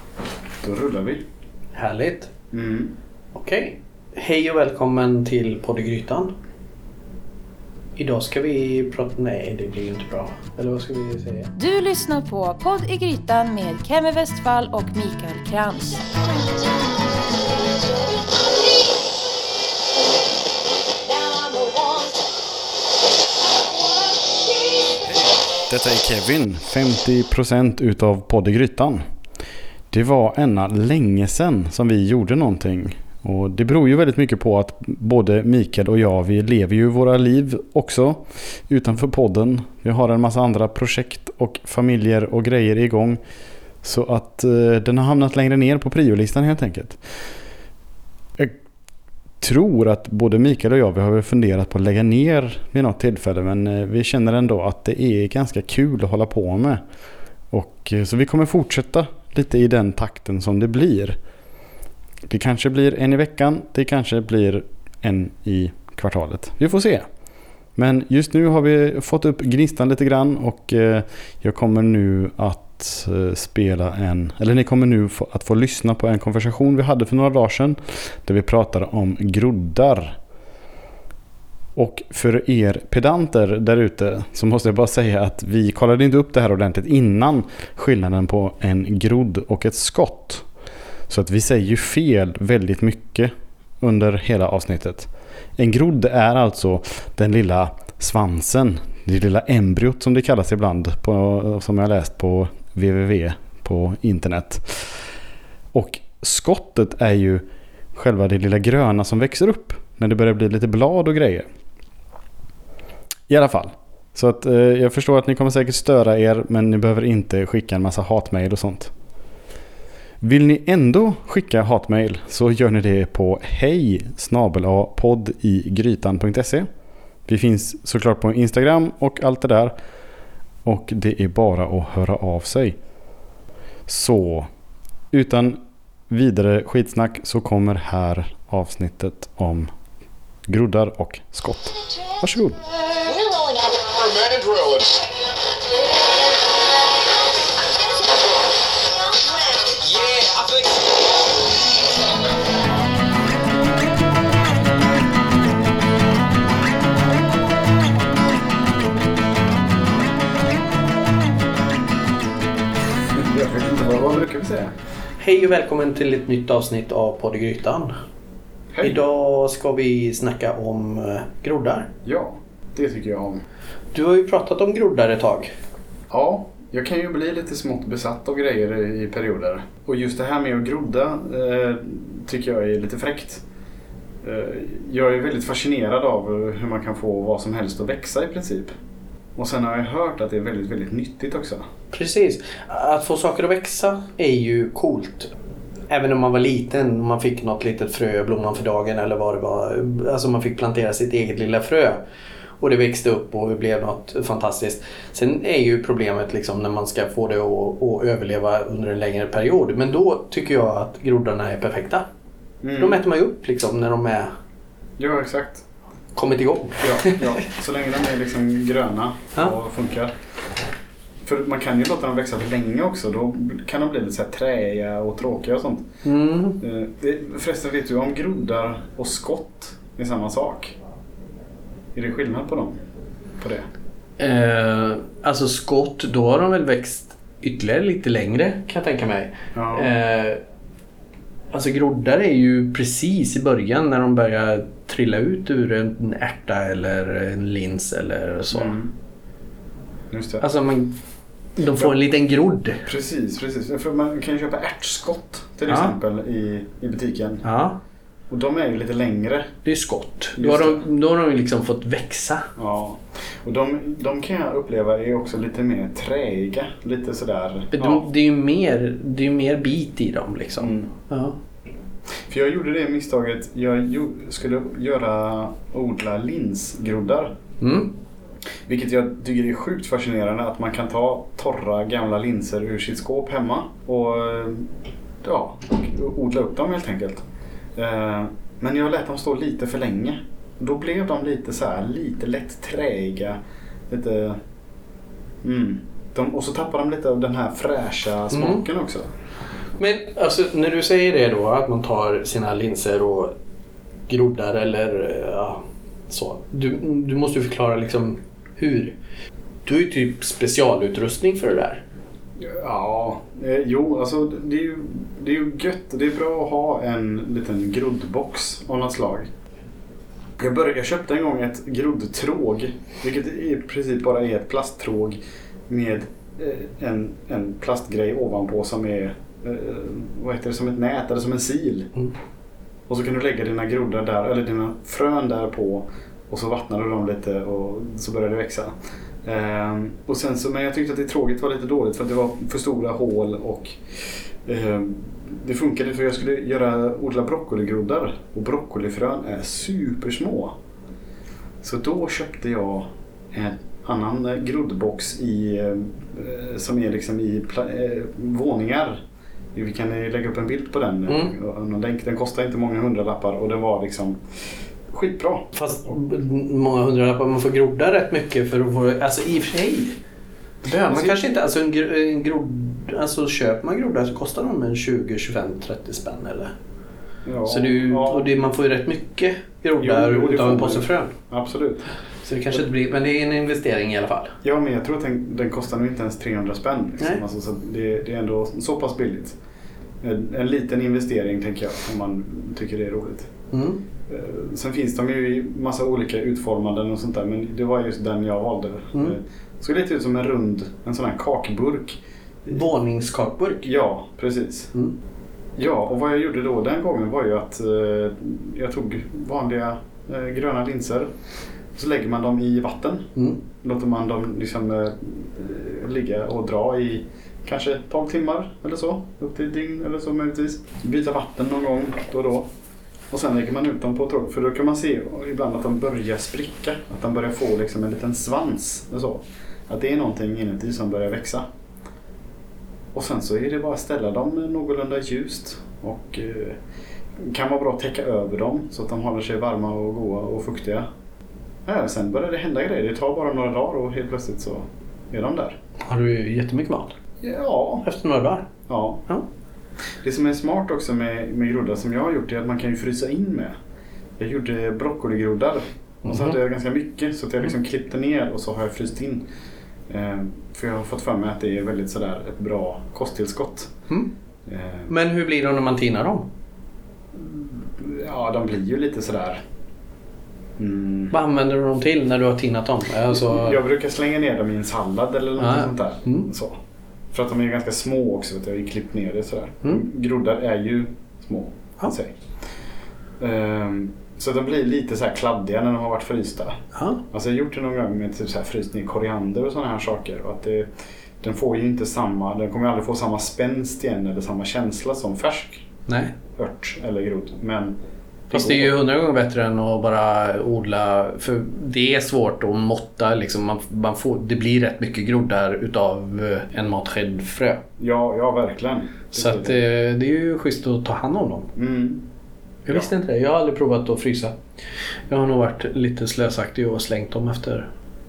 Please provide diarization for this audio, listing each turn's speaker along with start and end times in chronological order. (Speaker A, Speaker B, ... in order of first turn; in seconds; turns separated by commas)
Speaker A: 0.6-1.2, Speaker B: 1.7-2.3, Speaker A: 2.5-2.9, Speaker B: 3.3-6.3, Speaker B: 8.0-11.5, Speaker C: 11.6-16.1, Speaker C: 21.1-22.2, Speaker A: 25.0-29.0, Speaker A: 29.9-43.2, Speaker A: 43.8-47.0, Speaker A: 49.4-56.8, Speaker A: 57.5-61.2, Speaker A: 62.3-67.0, Speaker A: 67.8-80.2, Speaker A: 81.7-90.5, Speaker A: 91.1-104.9, Speaker A: 105.7-111.5, Speaker A: 113.3-118.9, Speaker A: 120.2-126.7, Speaker A: 127.3-129.7, Speaker A: 130.6-132.8, Speaker A: 133.9-134.5, Speaker A: 135.1-135.6, Speaker A: 136.1-139.7, Speaker A: 140.5-142.6, Speaker C: 143.0-144.1, Speaker C: 149.1-150.2, Speaker A: 163.1-164.7, Speaker B: 165.2-167.9, Speaker A: 168.7-169.0, Speaker B: 168.8-171.9, Speaker A: 172.0-173.4, Speaker B: 173.9-175.5, Speaker A: 176.1-183.4, Speaker A: 184.2-188.7, Speaker A: 189.3-191.6, Speaker B: 191.9-195.3, Speaker B: 195.9-202.0, Speaker B: 202.6-212.1, Speaker A: 212.6-213.0, Speaker B: 212.8-214.3, Speaker A: 215.0-215.6, Speaker B: 216.1-217.4, Speaker A: 216.8-220.1, Speaker A: 221.2-225.8, Speaker B: 226.0-226.6, Speaker A: 226.6-230.7, Speaker A: 231.9-232.7, Speaker B: 234.2-240.4, Speaker A: 239.5-239.9, Speaker B: 241.5-248.7, Speaker A: 248.5-248.9, Speaker A: 250.1-250.5, Speaker B: 250.4-251.0, Speaker B: 251.6-252.8, Speaker A: 251.7-251.9, Speaker A: 252.8-257.4, Speaker B: 255.7-255.9, Speaker B: 257.4-257.8, Speaker A: 258.3-259.5, Speaker B: 259.6-262.5, Speaker A: 260.4-260.8, Speaker A: 262.6-268.1, Speaker B: 267.7-271.4, Speaker A: 270.6-270.9, Speaker A: 272.3-277.3, Speaker B: 277.6-277.9, Speaker A: 278.7-284.7, Speaker A: 285.2-287.2, Speaker A: 287.8-293.4, Speaker A: 293.9-294.4, Speaker A: 295.4-299.1, Speaker B: 298.3-298.6, Speaker B: 299.8-303.3, Speaker B: 304.1-305.6, Speaker B: 306.1-308.9, Speaker B: 309.6-311.8, Speaker A: 312.4-319.3, Speaker A: 320.4-331.9, Speaker A: 332.9-350.5, Speaker A: 351.6-359.0, Speaker A: 359.5-364.2, Speaker B: 361.1-361.3, Speaker A: 364.9-365.5, Speaker B: 365.5-369.9, Speaker B: 370.6-376.5, Speaker A: 370.7-371.1, Speaker A: 377.2-378.3, Speaker B: 377.4-381.1, Speaker A: 379.8-381.9, Speaker B: 382.2-384.3, Speaker A: 384.4-389.4, Speaker A: 390.0-393.3, Speaker B: 393.5-393.8, Speaker A: 394.1-402.0, Speaker B: 402.5-403.6, Speaker A: 403.6-404.7, Speaker A: 405.6-411.1, Speaker A: 411.7-413.1, Speaker A: 413.6-422.5, Speaker A: 423.1-431.4, Speaker A: 432.9-436.6, Speaker A: 437.2-440.9, Speaker A: 441.6-445.6, Speaker B: 445.8-446.9, Speaker A: 447.2-447.8, Speaker B: 447.8-448.5, Speaker A: 448.7-449.0, Speaker A: 450.0-453.5, Speaker A: 454.2-459.2, Speaker B: 456.1-456.4, Speaker A: 459.9-463.7, Speaker A: 464.4-464.9, Speaker B: 464.9-466.2, Speaker A: 467.1-469.4, Speaker A: 470.6-471.1, Speaker B: 471.1-473.6, Speaker A: 473.1-476.6, Speaker B: 475.4-476.3, Speaker A: 477.1-482.1, Speaker A: 483.2-486.6, Speaker B: 486.7-487.0, Speaker A: 487.1-490.7, Speaker A: 491.2-495.6, Speaker B: 495.9-496.1, Speaker A: 496.3-497.7, Speaker A: 498.3-498.7, Speaker B: 498.3-507.6, Speaker A: 507.8-509.6, Speaker B: 509.1-511.5, Speaker A: 511.6-512.0, Speaker B: 512.6-514.4, Speaker B: 515.1-517.6